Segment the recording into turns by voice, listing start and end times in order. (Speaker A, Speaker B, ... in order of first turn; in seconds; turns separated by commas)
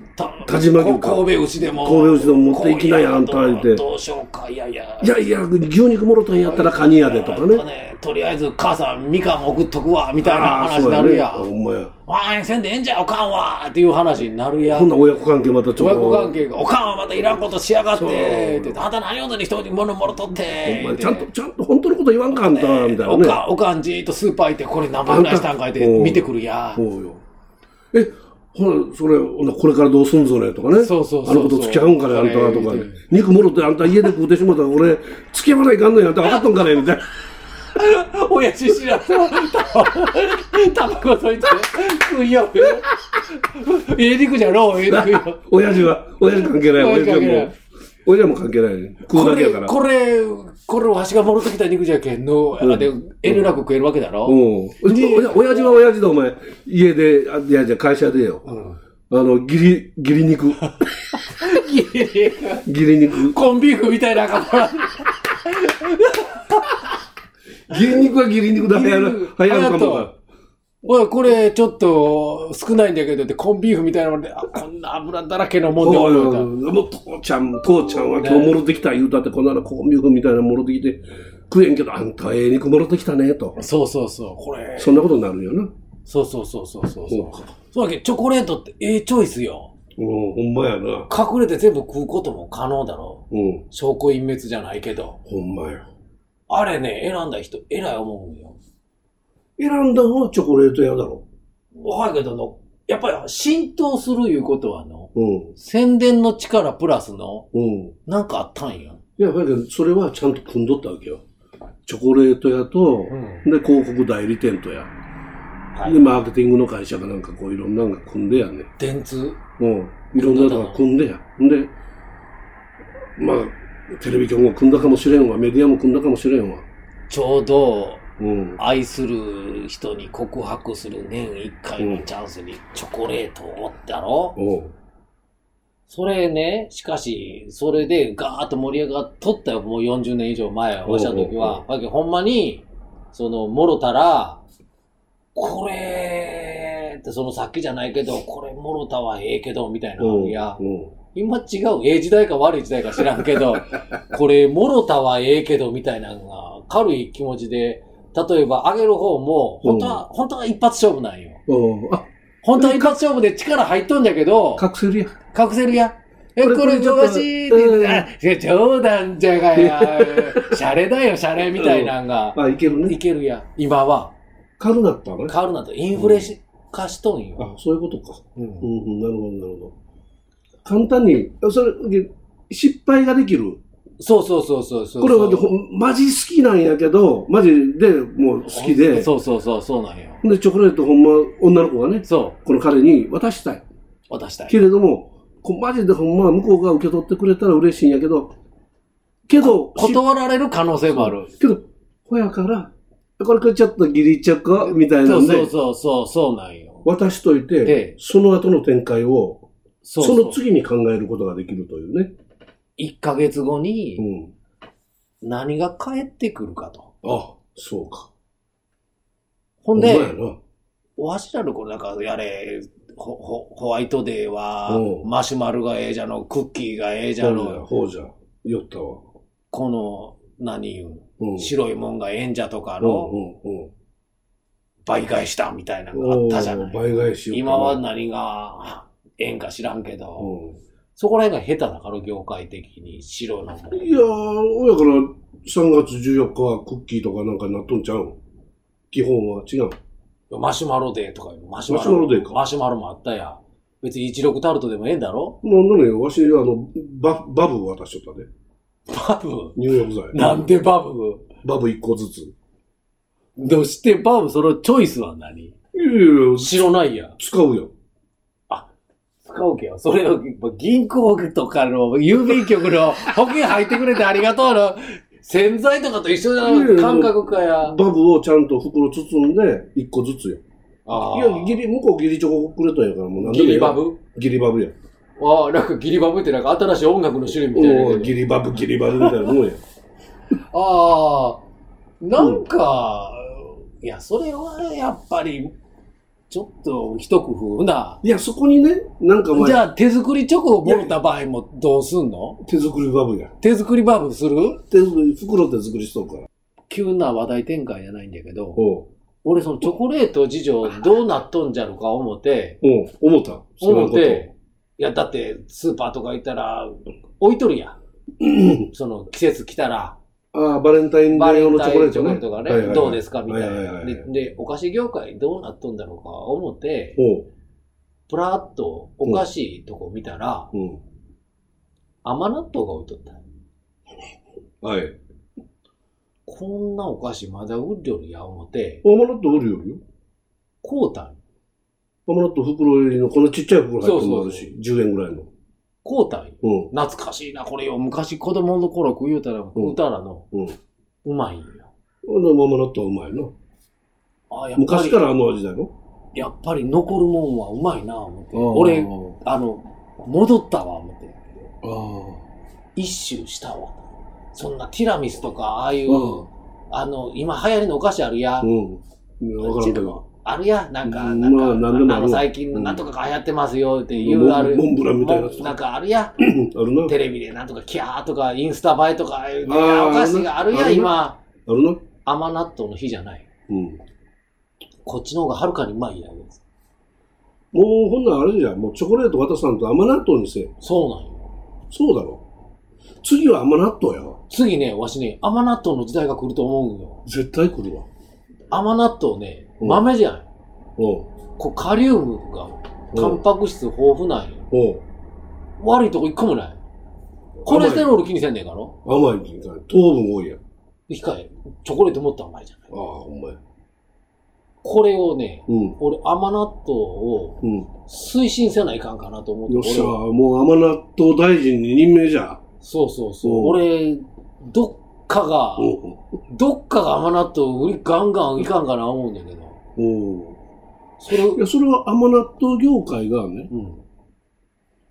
Speaker A: 0.1-5.2, Speaker B: 0.4-3.8, Speaker B: 5.0-7.6, Speaker A: 6.4-11.5, Speaker B: 10.2-11.9, Speaker A: 12.1-14.9, Speaker B: 14.6-16.4, Speaker A: 15.8-21.3, Speaker B: 17.9-18.8, Speaker B: 20.5-23.4, Speaker A: 22.3-26.8, Speaker B: 25.1-27.2, Speaker B: 27.9-37.0, Speaker A: 30.7-33.0, Speaker A: 37.7-45.4, Speaker B: 44.9-47.5, Speaker A: 46.3-47.5, Speaker B: 48.0-49.7, Speaker A: 49.1-55.7, Speaker B: 52.6-53.5, Speaker B: 54.2-58.4, Speaker A: 58.4-58.8, Speaker B: 59.1-60.6, Speaker A: 60.8-66.9, Speaker B: 62.6-63.4, Speaker B: 67.7-70.1, Speaker A: 67.7-70.1, Speaker A: 70.8-76.5, Speaker B: 75.8-83.6, Speaker A: 78.2-78.5, Speaker A: 83.6-85.0, Speaker B: 84.8-85.7, Speaker A: 86.0-89.7, Speaker B: 87.1-87.5, Speaker B: 90.0-91.1, Speaker A: 91.1-95.2, Speaker B: 93.3-93.7, Speaker B: 95.2-95.9, Speaker A: 96.5-98.6, Speaker B: 99.6-101.2, Speaker A: 101.7-107.5, Speaker B: 105.1-105.5, Speaker B: 107.5-107.9, Speaker A: 108.0-109.0, Speaker B: 109.2-111.2, Speaker B: 111.8-114.9, Speaker A: 113.1-113.4, Speaker A: 115.7-116.1, Speaker B: 115.8-118.7, Speaker A: 118.8-119.4, Speaker B: 119.6-121.7, Speaker A: 120.1-120.8, Speaker B: 123.2-126.7, Speaker A: 127.1-128.0, Speaker B: 128.2-128.6, Speaker A: 128.6-134.4, Speaker B: 131.8-132.1, Speaker B: 134.4-134.7, Speaker A: 135.9-144.4, Speaker B: 140.8-141.6, Speaker A: 145.3-150.6, Speaker B: 150.0-150.9, Speaker A: 151.1-161.4, Speaker B: 159.6-160.0, Speaker B: 161.5-163.0, Speaker A: 162.4-164.7, Speaker B: 164.6-165.2, Speaker A: 165.3-174.1, Speaker B: 166.4-168.1, Speaker B: 169.5-170.6, Speaker B: 171.5-173.0, Speaker B: 174.6-175.3, Speaker A: 175.3-177.5, Speaker B: 175.9-176.3, Speaker B: 177.4-179.7, Speaker A: 178.3-178.7, Speaker B: 180.6-183.6, Speaker A: 184.0-185.5, Speaker B: 185.0-189.1, Speaker A: 188.5-190.2, Speaker B: 190.2-193.6, Speaker A: 192.0-192.4, Speaker A: 194.1-194.6, Speaker B: 194.5-198.3, Speaker B: 199.3-200.0, Speaker A: 199.4-201.3, Speaker B: 200.9-205.5, Speaker A: 204.6-206.8, Speaker B: 206.8-209.4, Speaker A: 207.6-207.9, Speaker A: 209.8-210.4, Speaker B: 210.0-212.1, Speaker A: 212.8-214.1, Speaker B: 214.0-214.3, Speaker A: 215.2-216.9, Speaker B: 217.0-218.1, Speaker A: 219.6-220.2, Speaker B: 219.7-220.4, Speaker A: 221.0-227.6, Speaker B: 224.7-225.1, Speaker B: 227.2-229.0, Speaker A: 229.5-233.1, Speaker B: 231.2-231.5, Speaker B: 232.8-233.7, Speaker A: 234.8-240.3, Speaker B: 235.9-237.8, Speaker B: 240.2-240.6, Speaker A: 240.9-243.9, Speaker B: 243.7-248.2, Speaker B: 248.9-249.8, Speaker A: 250.3-255.4, Speaker B: 251.7-252.4, Speaker B: 255.4-258.3, Speaker A: 258.9-261.3, Speaker B: 259.6-260.5, Speaker B: 261.4-262.3, Speaker A: 263.4-265.5, Speaker B: 265.7-267.7, Speaker A: 266.4-267.2, Speaker A: 269.2-277.8, Speaker B: 276.4-280.4, Speaker A: 280.9-281.6, Speaker B: 280.9-284.7, Speaker A: 283.2-284.0, Speaker A: 285.2-288.2, Speaker B: 287.4-289.6, Speaker A: 288.9-289.3, Speaker A: 290.5-291.4, Speaker A: 292.0-295.5, Speaker B: 292.2-292.4, Speaker A: 296.3-298.0, Speaker B: 298.0-299.6, Speaker A: 299.3-302.4, Speaker B: 300.6-300.9, Speaker B: 302.4-303.3, Speaker A: 303.4-304.6, Speaker B: 304.6-306.3, Speaker A: 306.7-308.6, Speaker B: 308.6-308.9, Speaker A: 309.2-312.6, Speaker B: 312.6-314.3, Speaker A: 313.6-317.8, Speaker B: 318.2-318.7, Speaker A: 318.7-320.0, Speaker B: 320.3-324.1, Speaker A: 321.1-327.0, Speaker B: 326.9-327.3, Speaker A: 328.1-330.5, Speaker B: 330.5-330.8, Speaker A: 332.0-333.2, Speaker B: 334.6-335.0, Speaker A: 336.2-338.8, Speaker B: 338.8-339.8, Speaker A: 340.6-341.2, Speaker B: 342.1-345.3, Speaker A: 343.8-344.5, Speaker A: 345.8-350.3, Speaker B: 346.4-346.7, Speaker B: 350.3-350.6, Speaker A: 351.0-351.7, Speaker B: 352.0-353.3, Speaker A: 354.3-355.0, Speaker B: 354.6-355.7, Speaker A: 356.1-361.3, Speaker B: 358.3-359.2, Speaker B: 361.6-362.2, Speaker A: 362.8-368.5, Speaker B: 365.9-366.3, Speaker B: 368.4-370.0, Speaker A: 369.4-376.2, Speaker B: 370.8-372.8, Speaker B: 373.9-375.6, Speaker B: 376.2-376.9, Speaker A: 376.9-381.2, Speaker B: 379.4-381.8, Speaker A: 382.0-383.3, Speaker B: 383.5-383.8, Speaker A: 384.9-386.4, Speaker B: 387.5-390.5, Speaker A: 390.6-391.3, Speaker B: 391.7-392.2, Speaker B: 393.0-394.2, Speaker A: 394.3-397.0, Speaker B: 397.1-397.9, Speaker A: 398.5-400.2, Speaker B: 400.8-401.1, Speaker A: 401.4-404.5, Speaker B: 402.9-403.2, Speaker B: 404.5-404.8, Speaker A: 405.6-406.6, Speaker B: 407.4-407.9, Speaker A: 407.4-408.8, Speaker B: 408.8-410.4, Speaker A: 410.9-412.7, Speaker B: 412.7-413.4, Speaker A: 414.6-420.0, Speaker B: 415.5-415.8, Speaker B: 417.4-417.7, Speaker B: 419.5-422.4, Speaker A: 422.6-425.8, Speaker B: 423.2-423.6, Speaker B: 425.6-426.0, Speaker A: 426.3-429.6, Speaker B: 429.8-430.4, Speaker A: 431.0-431.4, Speaker B: 431.1-433.5, Speaker A: 433.5-433.8